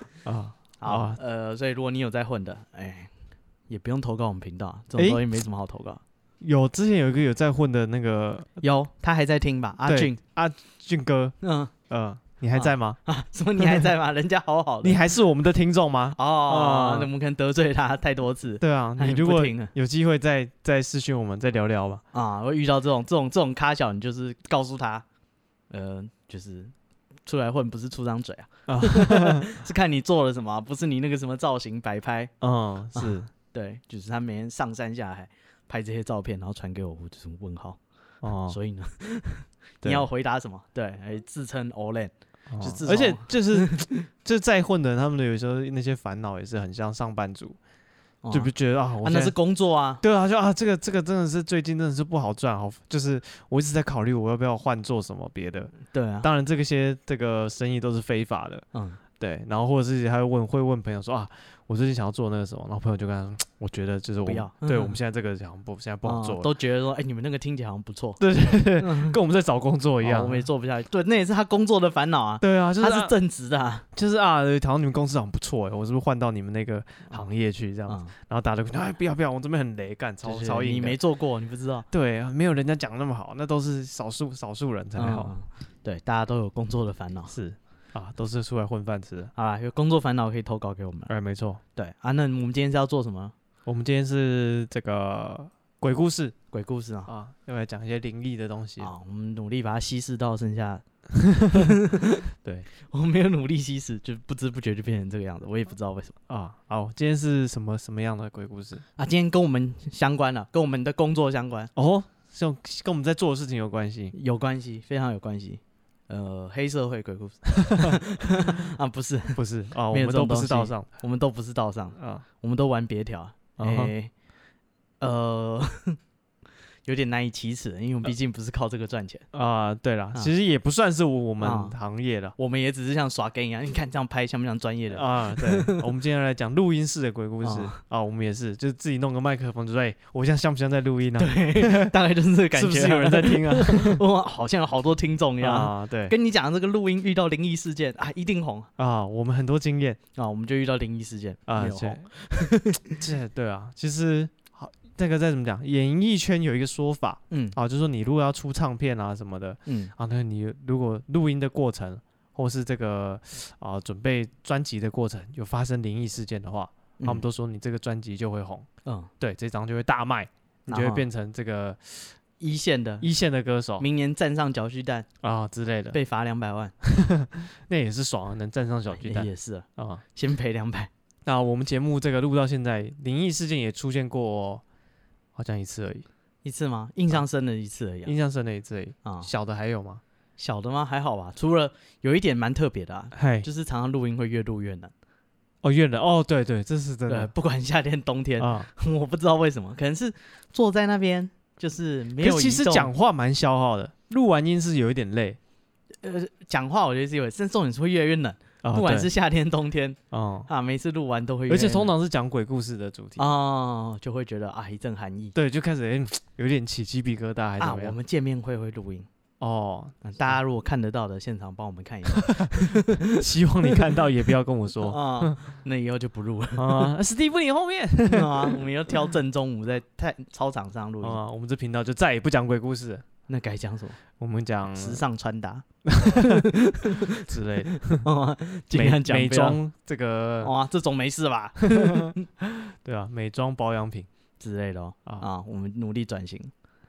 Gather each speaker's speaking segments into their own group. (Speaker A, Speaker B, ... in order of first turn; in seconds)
Speaker A: 0.2-1.2, 5.0-5.2, 6.4-8.5, 9.8-11.3, 11.9-13.0, 14.8-17.1, 18.6-22.0, 28.7-29.5, 32.4-33.3, 38.2-38.6, 42.5-47.6, 48.3-49.3, 50.0-58.6, 59.2-66.5, 68.2-70.5, 72.4-73.1, 73.9-81.0, 81.9-85.3, 87.3-89.3, 91.1-91.6, 93.7-96.4, 97.1-98.9, 106.3-108.8, 111.8-114.1, 119.3-120.9, 122.0-122.2, 123.6-123.9, 129.3-132.3, 134.9-141.9, 142.5-144.0, 145.4-146.1, 148.8-150.0, 151.5-152.1, 153.0-168.7, 169.2-172.2, 173.0-173.8, 175.2-176.0, 176.8-180.0, 181.2-184.6, 185.3-186.1, 188.0-190.0, 193.1-193.5, 195.6-197.3, 198.4-198.7, 202.2-205.4, 208.6-209.1, 210.1-210.5, 211.5-213.2, 215.3-217.9, 219.4-220.0, 222.2-225.4, 226.6-228.6, 231.0-233.0, 234.2-235.0, 235.8-236.4, 237.2-238.1, 238.7-240.5, 241.7-244.1
Speaker B: 0.8-3.1, 3.7-6.0, 8.6-10.2, 11.4-11.7, 12.5-15.0, 16.1-19.7, 22.1-25.0, 25.7-26.7, 27.2-32.3, 32.9-37.8, 38.5-44.1, 48.2-50.0, 55.9-56.3, 58.7-59.0, 64.2-65.0, 66.0-69.2, 70.0-73.8, 77.9-78.1, 80.2-81.9, 85.0-87.3, 89.3-91.1, 91.7-93.3, 96.5-97.1, 98.8-100.8, 101.4-106.1, 109.0-111.7, 114.1-119.4, 119.9-124.1, 125.0-126.0, 126.8-129.2, 131.4-131.8, 132.4-135.8, 137.4-137.8, 141.2-148.7, 150.2-153.0, 157.3-157.6, 159.7-159.9, 167.0-167.2, 168.8-169.1, 170.7-171.0, 172.4-173.1, 173.8-175.1, 175.9-176.7, 178.9-180.9, 186.4-188.1, 189.0-189.3, 190.4-194.9, 197.1-202.9, 206.0-211.9, 213.2-215.3, 217.6-219.1, 220.0-223.7, 224.8-226.9, 228.1-231.2, 233.3-234.0, 234.7-237.2, 237.9-239.6, 240.4-242.2, 244.4-246.5